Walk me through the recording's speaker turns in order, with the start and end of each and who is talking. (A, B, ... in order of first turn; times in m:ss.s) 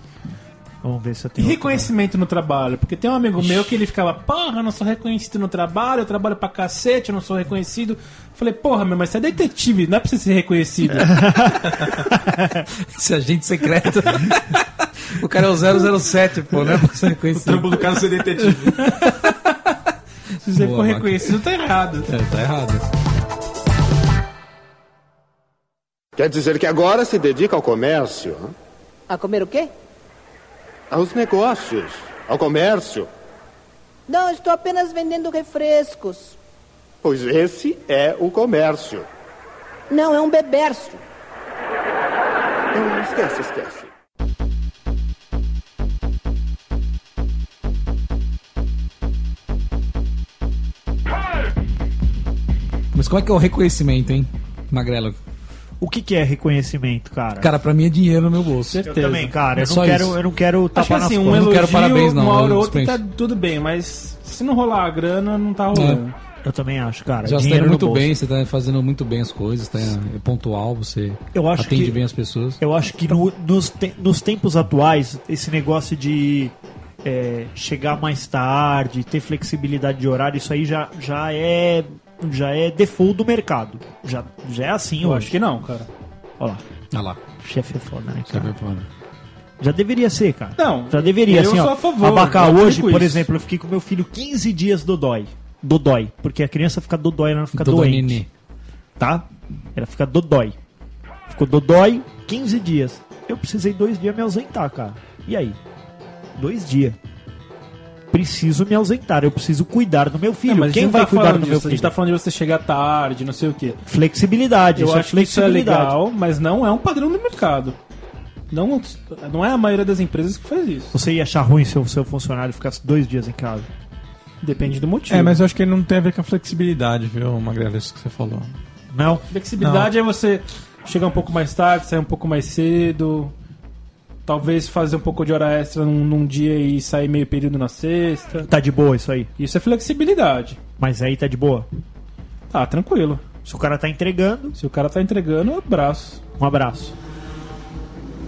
0:00.8-0:01.9 A
0:01.4-0:11.2 B
0:11.1-0:12.6 A
0:12.8-0:17.8 C
0:17.3-0:18.8 D
0:18.8-0:19.2 B
0:18.8-0:19.3 C
0:20.4-0:22.1 B
0:20.5-0:21.3 C
0:22.1-0:22.8 C
0:26.2-0:28.5 E
0:29.1-0:29.7 F
0:30.9-0:33.1 E
0:34.1-0:36.4 F
0:37.0-0:39.1 E
0:39.9-0:41.0 F
0:42.7-0:43.9 E
0:52.9-0:55.2 C
0:55.8-0:57.5 A
0:57.4-0:58.8 C
0:58.7-0:59.3 B
0:58.8-1:01.6 A
0:59.5-1:00.2 C
1:00.8-1:06.1 B
1:01.3-1:03.0 C
1:05.7-1:06.0 C
1:06.4-1:08.1 A
1:07.2-1:12.6 C
1:11.3-1:12.0 A
1:12.6-1:25.4 A
1:25.0-1:25.9 B
1:26.9-1:27.2 C
1:27.4-1:28.5 A
1:28.3-1:28.9 C
1:29.6-1:38.2 A
1:30.6-1:33.3 B
1:37.6-1:38.3 C
1:39.0-1:40.6 A
1:41.3-1:45.6 A
1:46.4-1:47.0 A
1:48.1-1:51.9 A
1:50.5-1:53.8 B
1:53.8-1:55.9 A
1:54.8-1:57.8 B
1:58.5-2:00.9 B
2:00.9-2:03.7 A
2:04.4-2:05.4 B
2:05.1-2:08.5 D
2:08.9-2:09.2 A
2:09.3-2:13.3 B
2:09.6-2:09.9 D
2:14.2-2:18.5 B
2:18.5-2:19.3 A
2:19.4-2:20.6 B
2:20.8-2:21.7 A
2:22.5-2:23.2 B
2:23.4-2:24.5 A
2:24.6-2:26.2 B
2:26.4-2:26.9 A